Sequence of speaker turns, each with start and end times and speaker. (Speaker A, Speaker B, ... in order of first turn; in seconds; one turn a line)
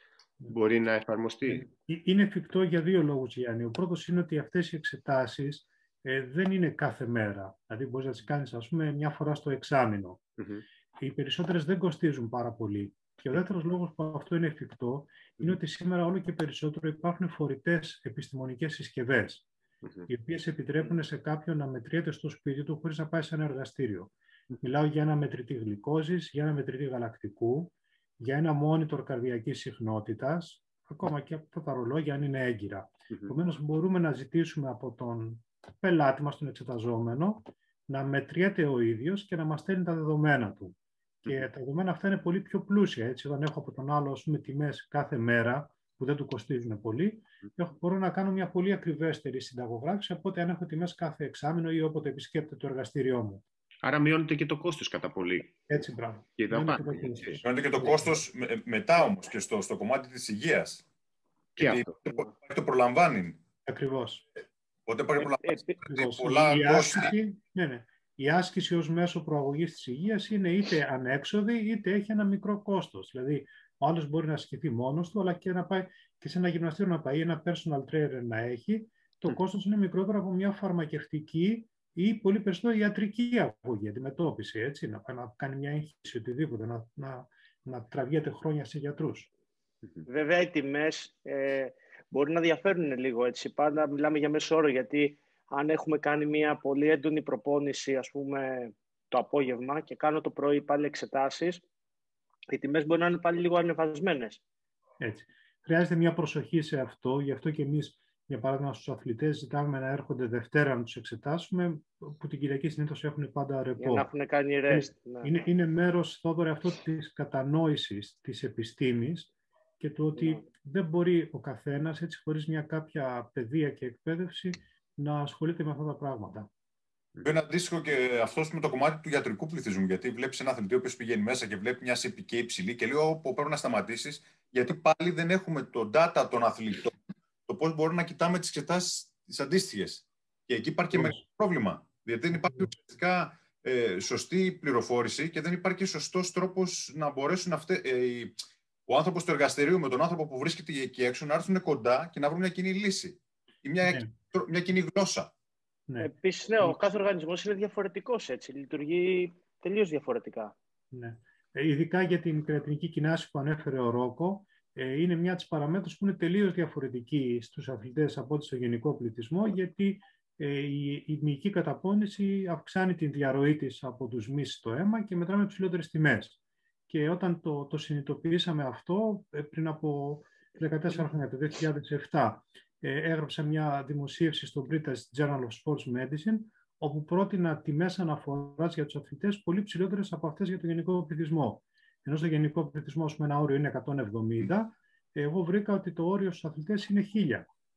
Speaker A: 0.5-1.6
Speaker B: 1.4-10.2
Speaker A: 10.4-10.6
Speaker B: 11.0-19.4
Speaker A: 19.8-20.1
Speaker B: 20.1-40.7
Speaker B: 41.2-53.4
Speaker A: 53.8-55.6
Speaker B: 55.7-58.0
Speaker A: 56.4-57.4
Speaker C: 57.4-60.8
Speaker A: 61.6-61.9
Speaker C: 61.6-63.4
Speaker B: 63.6-64.2
Speaker C: 64.9-67.1
Speaker D: 65.4-65.8
Speaker B: 65.8-89.3
Speaker D: 90.1-101.6
Speaker D: 102.5-104.4
Speaker B: 105.0-114.1
Speaker D: 113.8-115.5
Speaker B: 114.7-126.5
Speaker C: 127.2-136.9
Speaker C: 137.5-148.3
Speaker B: 140.9-141.2
Speaker C: 148.9-155.3
Speaker B: 153.8-154.1
Speaker B: 155.9-156.7
Speaker D: 156.0-160.5
Speaker B: 160.9-176.4
Speaker B: 176.9-197.4